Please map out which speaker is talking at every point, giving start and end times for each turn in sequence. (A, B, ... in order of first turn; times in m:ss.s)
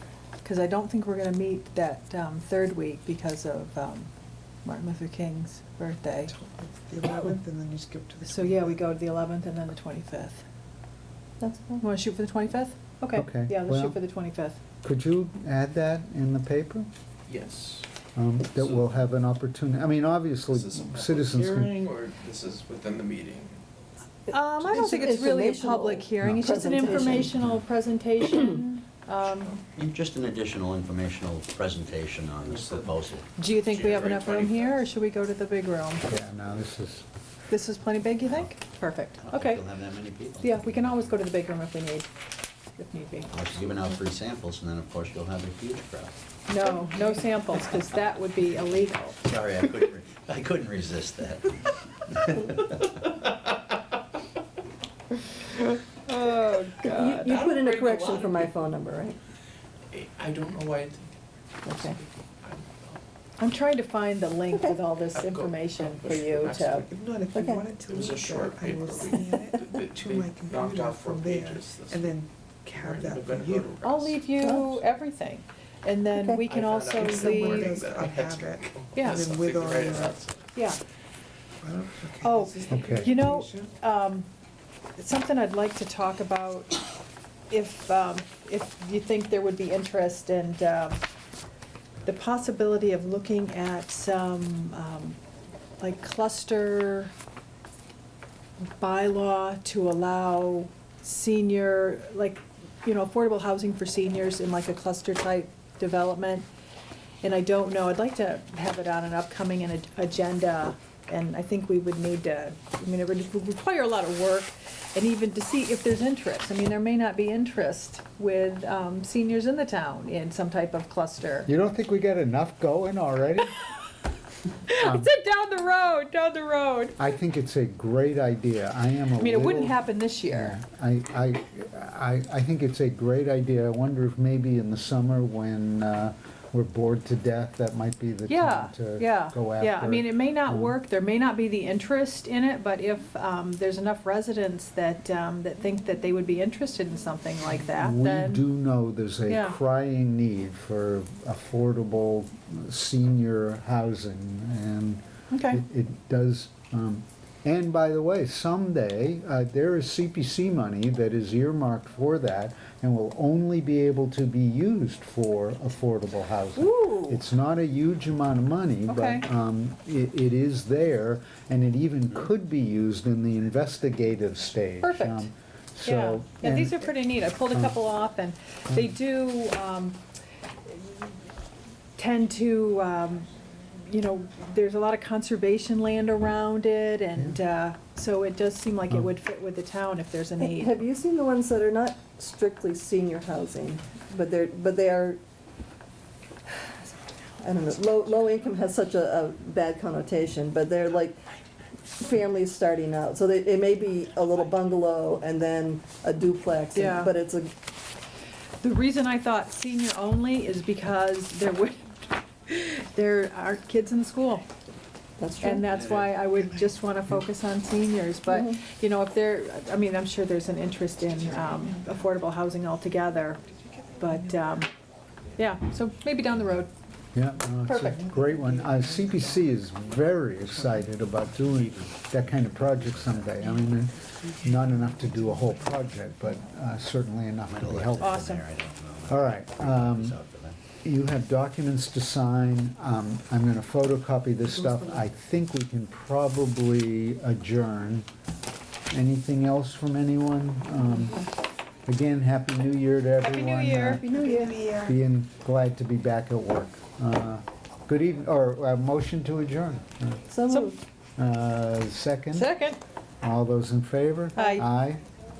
0:00.4-0:04.1 A
0:04.6-0:06.4 A
0:06.3-0:08.7 B
0:08.2-0:10.4 A
0:11.4-0:11.8 C
0:11.8-0:14.6 A
0:13.1-0:14.0 D
0:14.8-0:16.9 D
0:17.3-0:17.9 E
0:18.2-0:21.8 D
0:18.6-0:18.9 E
0:20.5-0:23.6 E
0:24.3-0:29.6 A
0:24.5-0:27.4 C
0:26.2-0:26.5 D
0:29.8-0:33.3 F
0:32.4-0:32.9 E
0:33.4-0:36.1 A
0:33.4-0:34.8 E
0:36.1-0:37.1 D
0:37.5-0:39.6 A
0:38.2-0:41.2 F
0:40.4-0:42.1 A
0:42.8-0:43.4 A
0:43.3-0:46.2 F
0:46.5-0:49.2 A
0:49.2-0:52.8 F
0:56.1-0:57.4 A
0:56.8-0:59.2 C
0:57.2-0:58.5 E
0:59.9-1:03.0 E
1:01.6-1:02.0 C
1:03.4-1:06.9 A
1:05.1-1:07.0 E
1:06.8-1:13.8 B
1:07.3-1:07.8 C
1:07.8-1:12.2 E
1:12.7-1:14.2 E
1:13.8-1:17.8 A
1:14.4-1:14.8 C
1:16.5-1:20.5 E
1:17.0-1:20.2 B
1:18.9-1:19.3 A
1:21.6-1:23.7 B
1:22.2-1:24.3 A
1:22.7-1:23.2 D
1:25.0-1:26.8 A
1:27.5-1:31.0 A
1:32.0-1:35.2 A
1:35.8-1:37.1 A
1:38.8-1:46.5 A
1:47.2-2:01.5 A
2:01.5-2:03.6 D
2:04.7-2:07.0 A
2:04.8-2:05.1 D
2:07.0-2:20.8 D
2:09.2-2:10.6 A
2:18.3-2:28.4 A
2:27.8-2:56.9 D
2:29.3-2:29.6 A
2:35.3-2:35.6 A
2:46.6-2:47.2 A
2:48.9-2:49.2 A
2:54.8-2:55.3 A
2:55.8-3:00.0 A
3:00.7-3:01.1 A
3:02.0-3:10.8 A
3:10.4-3:15.2 C
3:16.4-3:21.2 C
3:22.0-3:27.5 C
3:26.7-3:27.1 A
3:28.6-3:34.4 A
3:35.2-3:35.7 C
3:35.4-3:43.4 A
3:38.3-3:38.6 C
3:43.7-3:44.4 B
3:44.0-3:44.7 A
3:45.4-3:46.7 A
3:47.1-3:58.3 D
3:47.7-3:48.0 A
3:47.9-3:49.5 B
3:50.5-3:50.9 B
3:51.5-3:53.6 F
3:53.6-3:55.8 B
3:57.5-4:00.6 F
3:58.0-3:58.4 A
3:59.1-4:00.2 D
4:00.8-4:08.1 D
4:04.5-4:05.0 B
4:08.9-4:11.3 D
4:11.9-4:14.2 D
4:13.2-4:14.6 A
4:14.0-4:15.0 B
4:14.8-4:20.3 D
4:20.3-4:20.8 C
4:20.5-4:20.8 A
4:21.2-4:22.5 D
4:22.3-4:22.8 A
4:23.2-4:25.0 D
4:24.4-4:24.7 A